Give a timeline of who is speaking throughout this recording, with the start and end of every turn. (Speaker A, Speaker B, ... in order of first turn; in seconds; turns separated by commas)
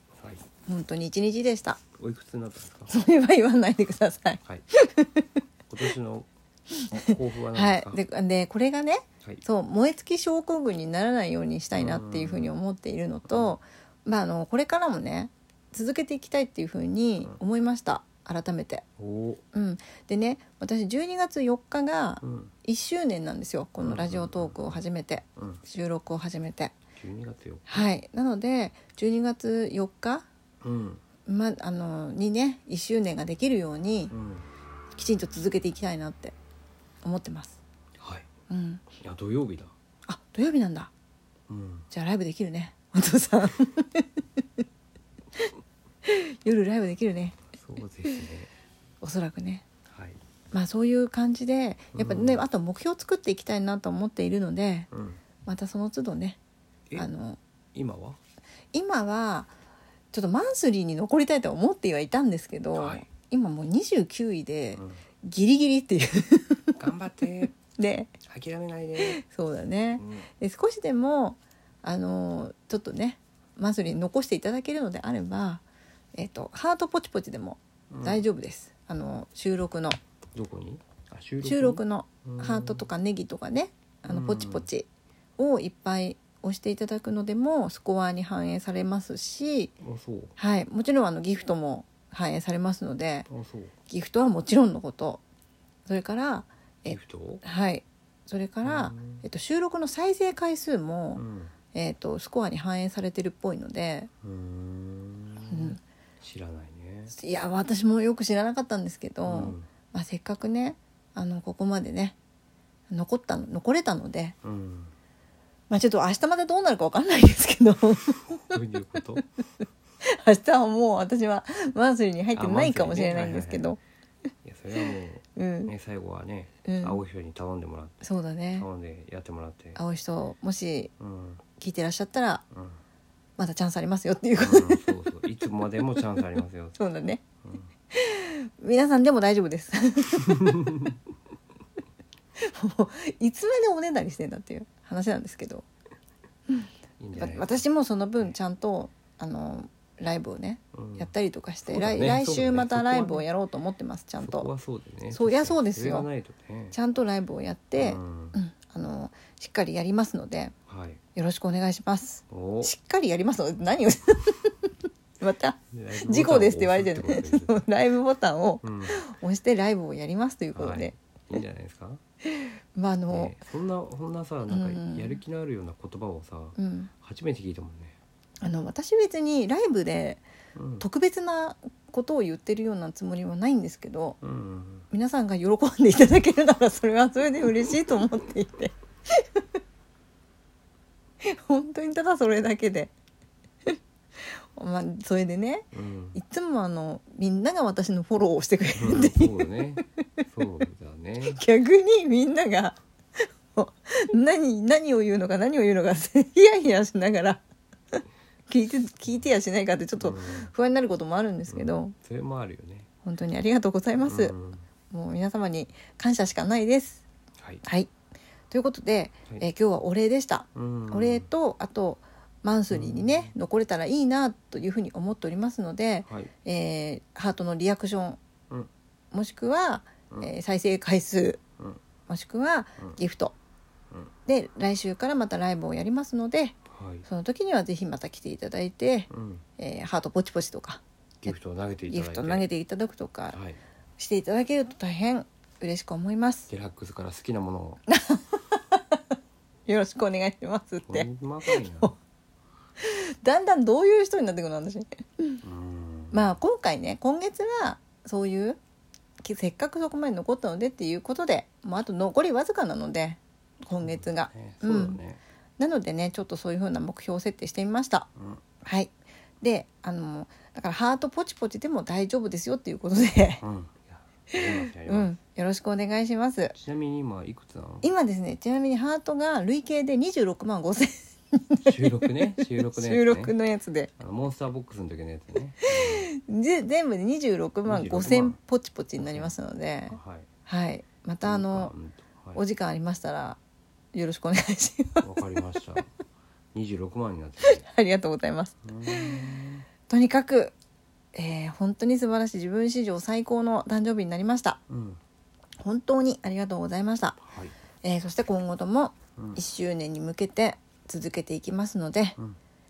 Speaker A: 0.2-0.4, Speaker B: 0.7-1.8, Speaker A: 2.0-2.9, Speaker B: 2.9-5.3, Speaker A: 5.7-6.3, Speaker B: 6.8-18.9, Speaker A: 6.9-8.0, Speaker A: 11.8-12.5, Speaker A: 13.3-13.6, Speaker A: 19.0-19.4, Speaker B: 19.5-26.8, Speaker A: 22.2-22.5, Speaker A: 23.8-24.8, Speaker A: 25.4-25.6, Speaker A: 26.9-27.9, Speaker B: 27.7-30.2, Speaker A: 30.6-31.0, Speaker B: 31.2-34.1, Speaker A: 34.1-34.5, Speaker B: 34.9-36.4, Speaker B: 37.0-37.6, Speaker A: 38.0-38.3, Speaker B: 38.5-38.8, Speaker A: 39.0-39.7, Speaker B: 40.1-40.9, Speaker A: 41.5-41.9, Speaker B: 41.9-44.6, Speaker B: 46.1-47.4, Speaker A: 47.6-48.5, Speaker B: 49.0-49.6, Speaker A: 49.9-50.2, Speaker B: 50.5-54.9, Speaker A: 51.9-52.4, Speaker A: 54.9-55.2, Speaker B: 55.5-56.4, Speaker B: 57.0-57.4, Speaker A: 57.7-58.2, Speaker B: 58.7-59.5, Speaker B: 60.1-66.7, Speaker A: 62.8-63.1, Speaker A: 66.8-67.5, Speaker B: 67.6-68.1, Speaker A: 68.2-69.2, Speaker B: 69.0-75.6, Speaker A: 70.0-70.3, Speaker B: 76.2-80.0, Speaker A: 77.9-78.2, Speaker A: 80.3-82.9, Speaker B: 81.4-89.7, Speaker A: 84.1-84.7, Speaker A: 89.8-90.3, Speaker B: 90.4-93.3, Speaker A: 93.3-93.7, Speaker B: 93.9-95.2, Speaker B: 95.9-104.1, Speaker A: 96.9-97.4, Speaker A: 98.6-99.2, Speaker A: 101.1-101.5, Speaker A: 104.2-107.1, Speaker B: 105.5-105.8, Speaker B: 107.1-112.2, Speaker A: 109.2-109.7, Speaker B: 112.9-114.4, Speaker A: 114.4-114.9, Speaker B: 115.7-118.6, Speaker A: 118.4-119.2, Speaker B: 120.0-123.8, Speaker A: 122.3-123.8, Speaker A: 124.4-129.8, Speaker B: 125.4-125.7, Speaker B: 126.6-127.0, Speaker B: 128.0-128.7, Speaker B: 129.8-130.9, Speaker A: 131.0-131.4, Speaker B: 131.6-132.4, Speaker A: 132.5-132.8, Speaker B: 133.4-134.8, Speaker A: 134.4-136.8, Speaker B: 136.8-137.2, Speaker A: 137.4-137.7, Speaker B: 137.9-140.6, Speaker A: 140.4-140.9, Speaker B: 142.4-145.7, Speaker B: 146.5-154.5, Speaker A: 147.0-147.6, Speaker A: 150.7-151.1, Speaker A: 151.7-153.2, Speaker A: 154.2-156.8, Speaker B: 155.1-156.1, Speaker B: 156.7-160.6, Speaker A: 157.8-158.4, Speaker A: 160.7-161.0, Speaker B: 161.1-170.9, Speaker A: 162.3-162.7, Speaker A: 165.7-167.6, Speaker A: 168.6-169.0, Speaker A: 170.6-172.0, Speaker B: 172.3-173.4, Speaker A: 173.1-178.0, Speaker B: 174.5-175.2, Speaker B: 176.6-176.9, Speaker B: 178.4-180.2, Speaker A: 180.6-180.9, Speaker B: 180.8-184.2, Speaker A: 184.2-184.9, Speaker B: 184.9-189.4, Speaker B: 191.2-192.9, Speaker B: 194.6-199.5, Speaker A: 195.7-196.2, Speaker A: 198.8-201.4, Speaker B: 201.2-207.4, Speaker B: 208.5-211.9, Speaker A: 210.0-210.5, Speaker A: 211.5-212.9, Speaker B: 213.0-214.3, Speaker A: 214.0-214.6, Speaker B: 214.9-217.0, Speaker B: 217.6-217.9, Speaker B: 218.5-228.2, Speaker A: 220.6-221.3, Speaker A: 222.7-223.3, Speaker B: 229.1-231.4, Speaker B: 232.1-233.3, Speaker B: 234.3-240.8, Speaker A: 236.7-237.1, Speaker A: 239.1-239.4, Speaker A: 241.2-242.5, Speaker B: 241.9-243.4, Speaker A: 243.3-243.6, Speaker B: 244.0-246.5, Speaker A: 246.5-247.8, Speaker B: 247.9-249.0, Speaker B: 249.7-251.9, Speaker A: 250.9-251.9, Speaker B: 252.8-255.4, Speaker A: 255.4-256.3, Speaker B: 256.1-258.6, Speaker B: 259.2-265.0, Speaker A: 263.8-265.2, Speaker B: 265.6-268.1, Speaker A: 268.2-268.4, Speaker B: 268.6-273.4, Speaker A: 273.4-275.1, Speaker B: 274.3-276.6, Speaker A: 276.5-277.9, Speaker B: 277.8-283.9, Speaker A: 281.6-283.3, Speaker A: 284.0-286.1, Speaker B: 285.6-291.7, Speaker A: 287.6-288.4, Speaker A: 289.0-289.3, Speaker A: 289.9-290.3, Speaker A: 291.2-292.4, Speaker B: 292.3-293.4, Speaker B: 293.9-295.2, Speaker A: 295.0-295.9, Speaker A: 296.5-297.6, Speaker B: 297.4-299.3, Speaker A: 298.6-299.6, Speaker B: 299.9-300.5, Speaker B: 301.1-304.6, Speaker A: 304.7-305.0, Speaker B: 305.6-307.2, Speaker A: 307.3-307.5, Speaker B: 307.8-312.2